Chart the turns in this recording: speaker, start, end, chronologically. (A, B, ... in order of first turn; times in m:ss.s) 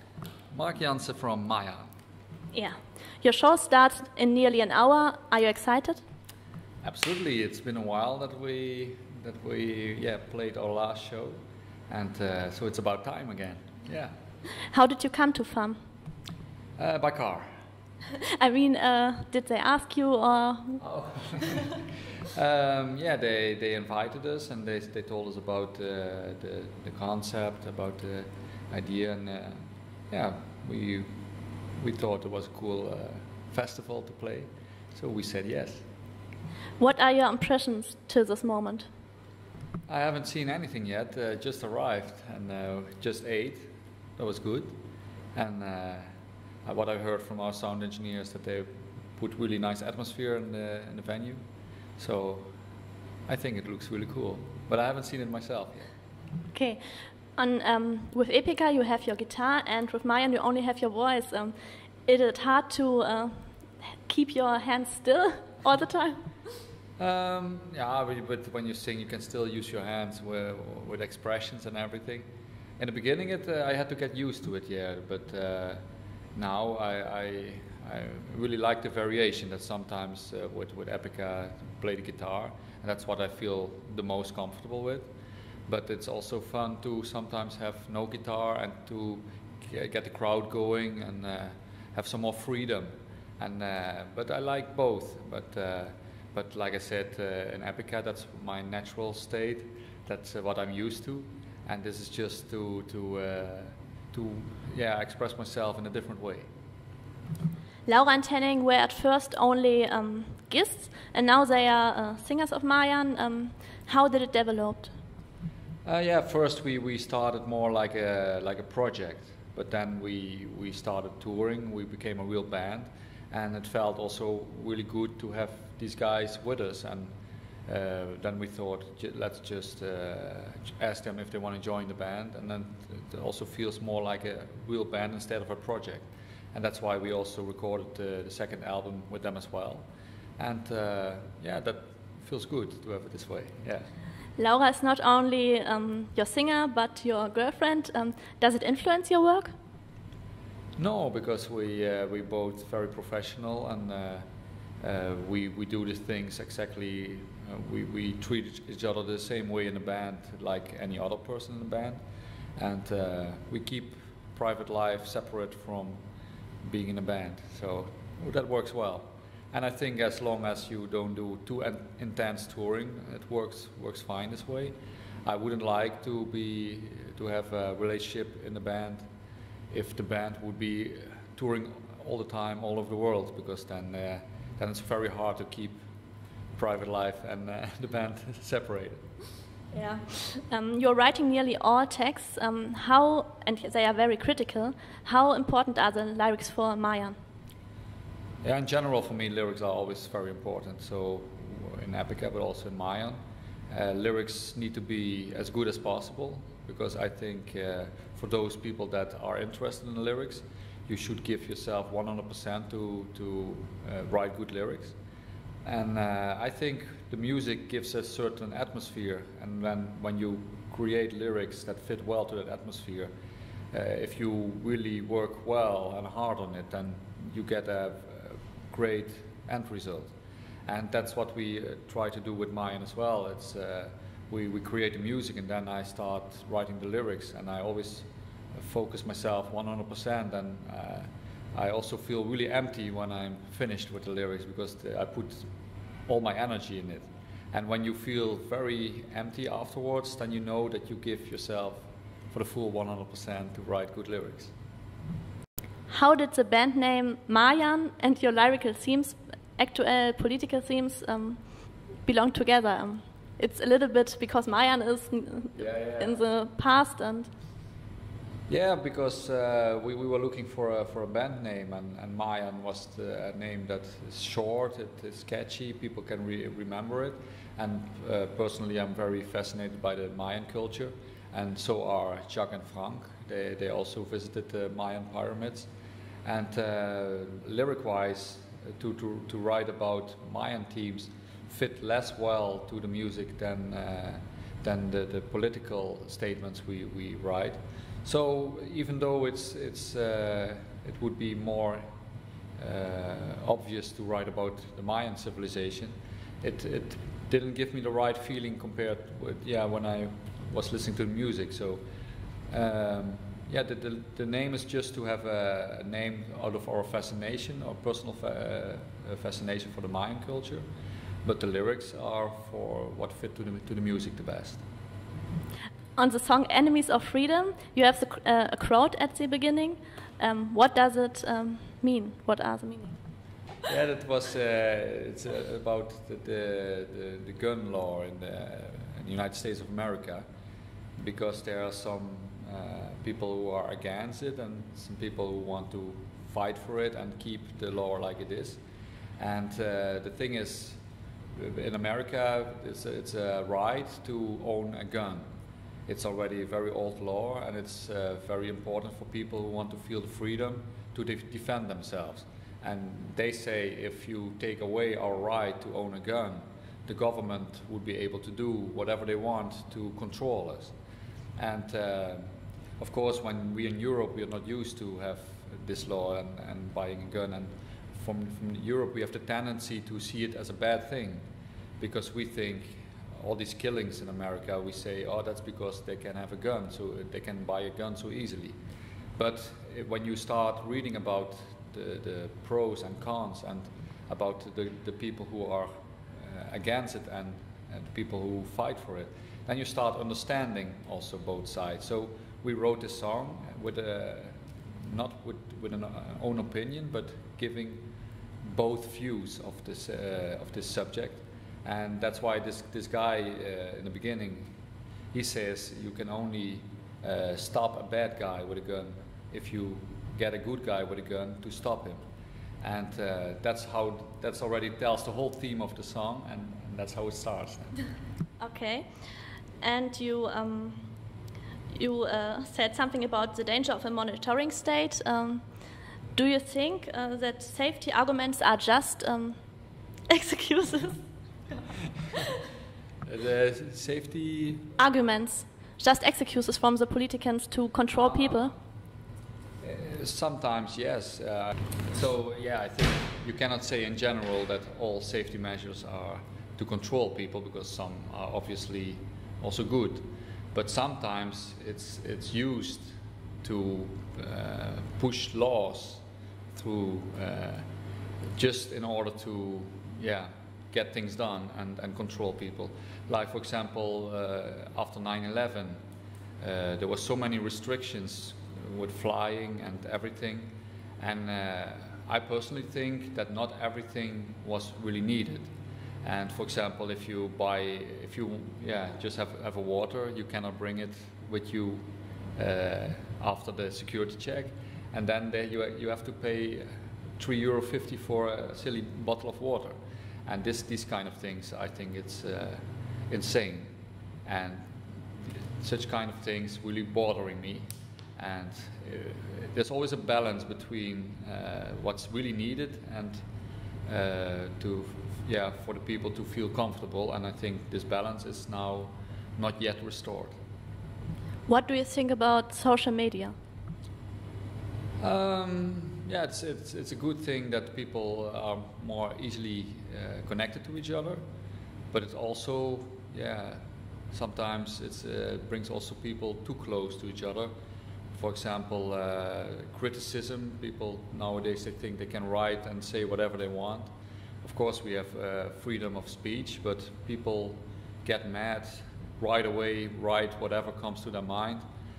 0:00.5-0:01.9 A
0:02.5-0:06.0 B
0:06.8-0:14.1 A
0:14.7-0:15.8 B
0:16.8-0:17.5 A
0:18.3-0:20.8 B
0:20.8-0:31.1 A
0:31.8-0:35.8 A
0:36.8-0:38.9 B
0:39.9-0:44.8 A
0:45.3-0:46.1 A
0:46.6-0:51.4 A
0:52.0-0:52.5 A
0:53.3-0:55.9 A
0:56.5-0:56.8 B
0:57.3-1:06.3 B
1:07.0-1:12.3 A
1:12.8-1:15.8 A
1:16.4-1:25.1 A
1:25.7-1:46.5 A
1:47.9-1:54.9 B
1:55.8-2:07.1 A
2:07.7-2:19.9 A
2:20.4-2:23.9 A
2:24.4-2:29.5 B
2:30.8-2:34.2 A
2:34.8-2:42.0 A
2:42.6-2:46.0 A
2:46.6-2:59.1 A
2:59.7-3:05.8 A
3:06.6-3:09.0 A
3:09.7-3:17.2 B
3:18.4-3:35.0 A
3:35.6-3:43.1 A
3:43.7-3:50.1 A
3:50.7-4:05.5 A
4:06.1-4:14.5 A
4:15.9-4:27.3 B
4:25.5-4:26.2 A
4:28.5-4:45.7 A
4:46.2-5:01.8 A
5:02.6-5:11.8 A
5:12.5-5:20.6 A
5:21.2-5:24.6 A
5:26.0-5:33.0 B
5:33.7-5:40.2 A
5:41.0-5:48.6 A
5:49.2-5:50.8 A
5:51.4-5:55.3 A
5:55.9-6:10.7 A
6:11.4-6:21.2 A
6:21.8-6:28.6 A
6:29.2-6:47.8 A
6:48.4-6:54.5 A
6:55.1-7:02.0 A
7:02.6-7:07.9 A
7:08.4-7:08.9 B
7:09.6-7:10.9 B
7:11.7-7:15.4 B
7:16.1-7:19.4 B
7:20.1-7:22.4 B
7:23.0-7:24.6 A
7:24.8-7:28.5 B
7:29.6-7:47.7 A
7:48.3-7:55.8 A
7:56.4-8:05.5 A
8:06.0-8:23.7 A
8:24.2-8:33.2 A
8:33.8-8:40.4 A
8:41.5-8:43.3 B
8:45.0-8:51.2 A
8:51.9-8:57.5 A
8:58.1-9:03.9 A
9:04.4-9:11.6 A